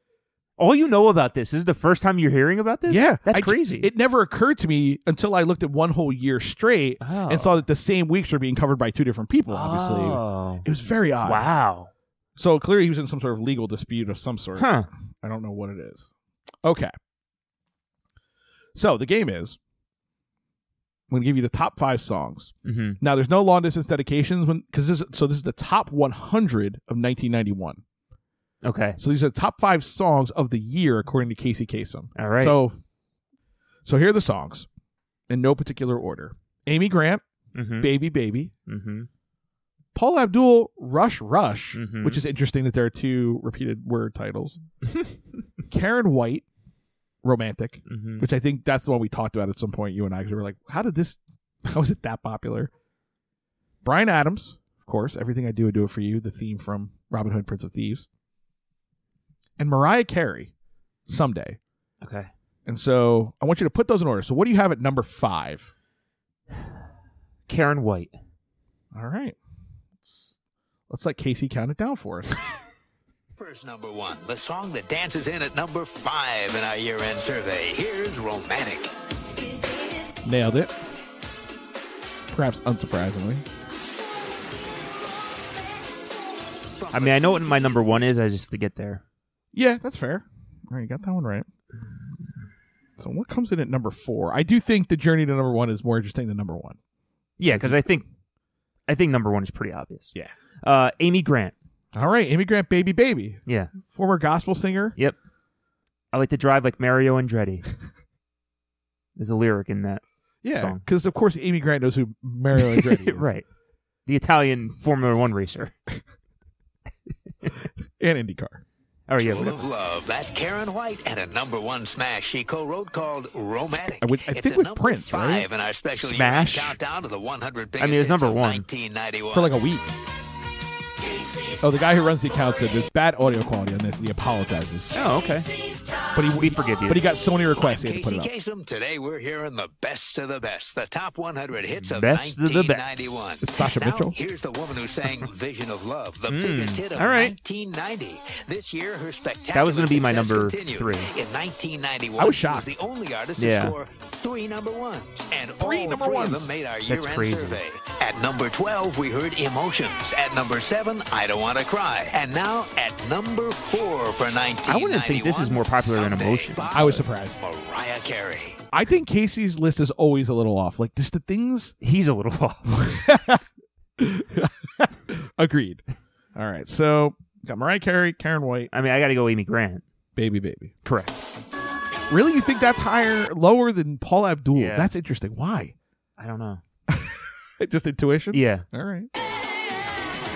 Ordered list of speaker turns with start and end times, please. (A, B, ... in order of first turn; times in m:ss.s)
0:00.6-0:03.9 A
0:02.9-0:11.5 B
0:07.0-0:07.6 A
0:09.5-0:10.7 A
0:11.2-0:11.9 A
0:12.4-0:16.1 B
0:14.6-0:14.9 A
0:16.6-0:16.9 B
0:18.8-0:19.6 B
0:21.1-0:27.8 B
0:22.6-0:23.0 A
0:28.6-0:29.0 A
0:29.0-0:32.8 B
0:32.2-0:32.6 A
0:33.8-0:34.7 B
0:35.3-0:37.2 B
0:37.6-0:37.9 A
0:37.8-0:38.5 B
0:38.7-0:39.1 A
0:40.0-0:44.6 B
0:41.7-0:42.2 A
0:45.7-0:46.5 B
0:47.2-0:52.7 B
0:47.9-0:48.3 A
0:53.8-0:58.1 B
0:59.6-1:00.5 B
1:01.1-1:01.6 B
1:02.0-1:02.3 A
1:02.7-1:05.7 B
1:07.5-1:08.2 A
1:08.9-1:09.4 B
1:10.0-1:10.3 B
1:10.9-1:12.3 B
1:13.4-1:18.9 C
1:20.2-1:20.7 B
1:22.3-1:23.4 B
1:26.8-1:27.8 C
1:26.9-1:29.0 A
1:29.5-1:31.5 B
1:33.0-1:36.8 B
1:37.4-1:38.1 A
1:37.5-1:38.0 B
1:38.9-1:40.1 A
1:40.6-1:41.5 A
1:41.9-1:45.0 B
1:43.5-1:43.7 A
1:46.1-1:47.6 A
1:49.2-1:50.8 A
1:50.4-1:53.3 B
1:52.6-1:53.4 A
1:54.1-1:55.7 A
1:58.0-1:58.6 B
1:59.1-1:59.6 A
1:59.2-2:09.5 C
2:04.0-2:06.7 B
2:07.8-2:08.6 A
2:09.3-2:09.9 B
2:11.6-2:14.9 B
2:14.9-2:15.5 A
2:16.1-2:18.3 B
2:16.4-2:17.1 A
2:17.6-2:48.6 C
2:21.8-2:23.3 A
2:23.4-2:24.2 B
2:26.3-2:27.3 A
2:29.5-2:31.1 A
2:32.2-2:32.7 B
2:33.4-2:33.8 A
2:35.6-2:36.5 B
2:36.9-2:37.6 A
2:44.7-2:47.0 A
2:46.7-2:47.4 B
2:48.7-2:51.8 B
2:51.8-2:52.7 A
2:52.7-2:53.4 B
2:54.0-2:55.8 B
2:56.4-2:58.7 B
2:58.7-2:59.8 A
3:00.2-3:00.7 B
3:00.8-3:01.2 A
3:02.1-3:05.8 B
3:04.5-3:04.9 A
3:06.2-3:06.6 A
3:06.9-3:09.1 B
3:08.3-3:08.7 A